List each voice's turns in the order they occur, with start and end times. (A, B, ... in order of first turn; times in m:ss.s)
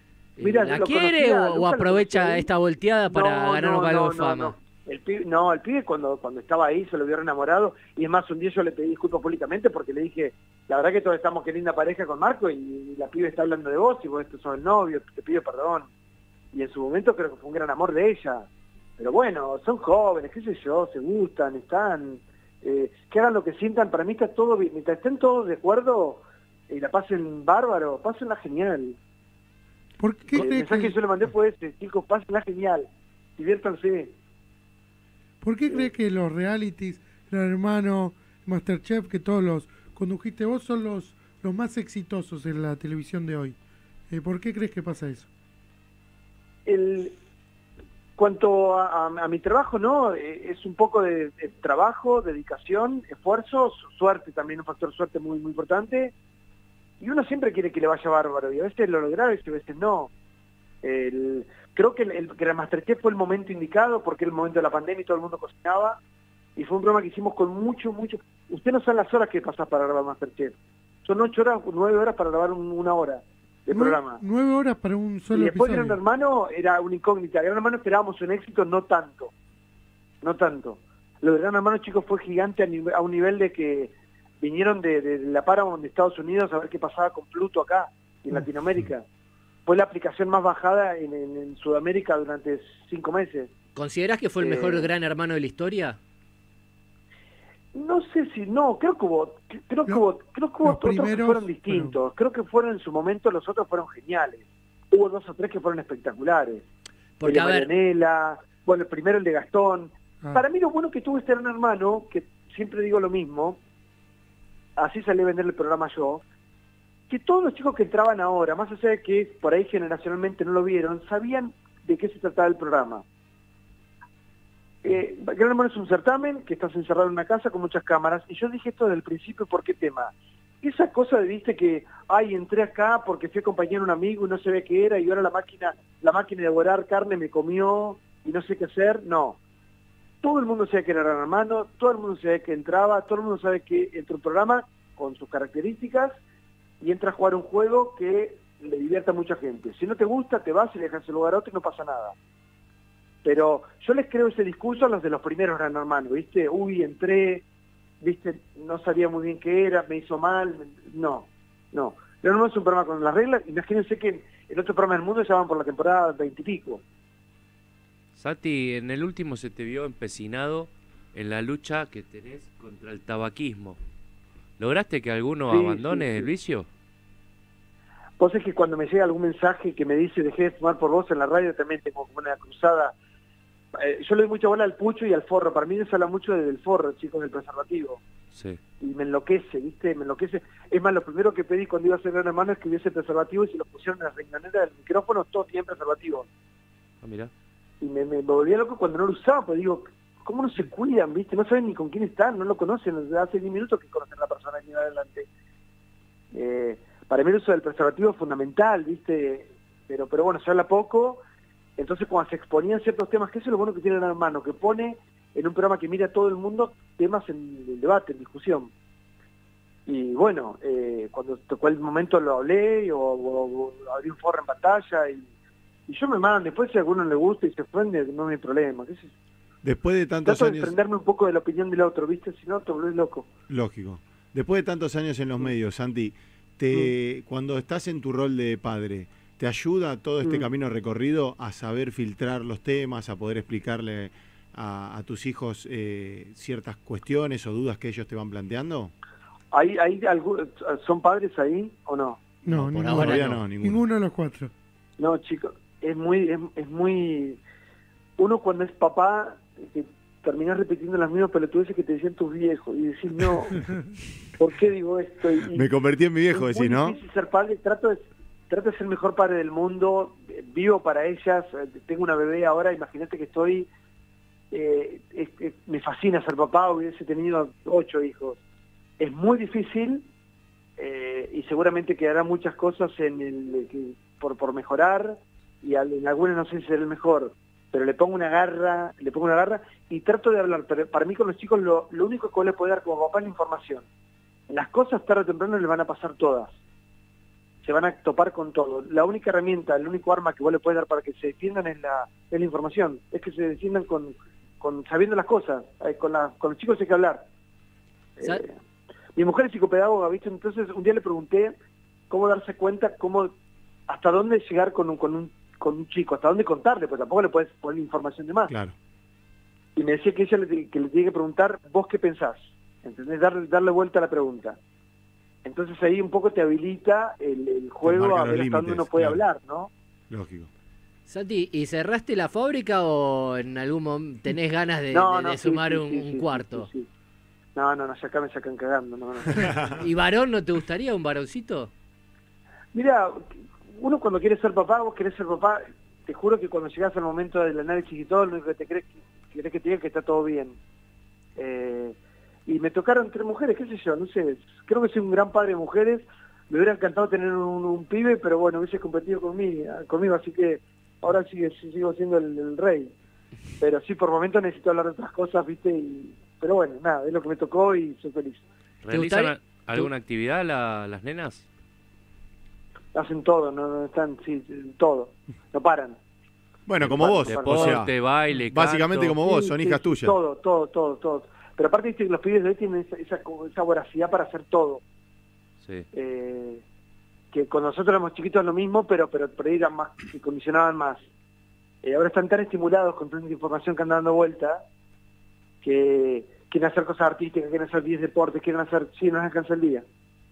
0:00.4-0:04.6 A
0:00.4-0:02.5 B
0:03.1-0:15.9 B
0:16.5-0:18.5 B
0:19.0-0:29.0 B
0:30.0-0:31.0 C
0:30.3-0:34.1 B
0:35.4-0:43.6 C
0:44.1-0:45.3 C
0:46.7-0:47.2 B
0:48.2-0:56.1 B
0:57.0-1:00.1 B
1:00.8-1:06.0 B
1:06.6-1:14.2 B
1:13.7-1:16.0 C
1:15.3-1:19.3 B
1:20.2-1:29.0 B
1:29.7-1:33.5 B
1:33.8-1:36.0 A
1:34.4-1:34.9 B
1:37.7-1:46.6 B
1:40.6-1:42.0 C
1:47.2-1:47.7 A
1:47.2-1:53.6 B
1:54.8-1:56.2 B
1:57.1-2:03.0 B
2:04.8-2:19.4 B
2:20.2-2:26.2 B
2:26.8-2:32.2 B
2:33.2-2:37.4 B
2:38.0-2:46.8 B
2:48.2-2:53.8 D
2:54.6-2:56.7 D
2:55.5-2:56.3 B
2:58.2-3:03.0 B
3:03.8-3:08.0 B
3:08.3-3:08.6 D
3:08.8-3:16.3 B
3:17.0-3:17.3 D
3:17.8-3:25.3 B
3:26.3-3:31.2 B
3:31.8-3:38.7 B
3:39.9-3:45.3 B
3:45.9-3:49.1 B
3:49.6-3:50.8 E
3:50.2-3:53.3 B
3:53.5-4:08.9 E
4:00.2-4:00.5 B
4:09.5-4:12.2 B
4:12.4-4:14.5 C
4:12.5-4:13.8 E
4:12.5-4:13.4 A
4:15.0-4:17.4 B
4:18.2-4:23.6 B
4:24.4-4:25.7 B
4:25.5-4:27.0 E
4:26.3-4:33.7 B
4:34.5-4:38.4 B
4:39.0-4:40.1 B
4:40.8-4:53.9 B
4:54.5-4:56.6 B
4:57.6-5:07.2 B
5:08.2-5:08.5 B
5:09.2-5:11.5 B
5:12.1-5:13.3 B
5:13.9-5:18.5 B
5:18.5-5:18.8 E
5:19.8-5:24.6 B
5:25.4-5:29.7 B
5:27.8-5:29.2 E
5:30.1-5:30.5 E
5:31.1-5:36.7 A
5:34.9-5:36.9 B
5:37.6-5:39.7 B
5:39.3-5:39.8 E
5:39.8-5:41.7 A
5:42.7-5:50.6 B
5:51.4-6:02.9 B
6:03.6-6:08.4 B
6:08.8-6:11.4 D
6:08.9-6:09.9 A
6:12.9-6:16.0 B
6:16.7-6:17.9 E
6:16.8-6:17.8 B
6:17.3-6:19.2 D
6:18.5-6:20.2 E
6:19.2-6:24.8 B
6:25.6-6:25.9 D
6:25.9-6:26.6 B
6:27.3-6:31.1 B
6:31.8-6:34.6 B
6:35.6-6:39.8 B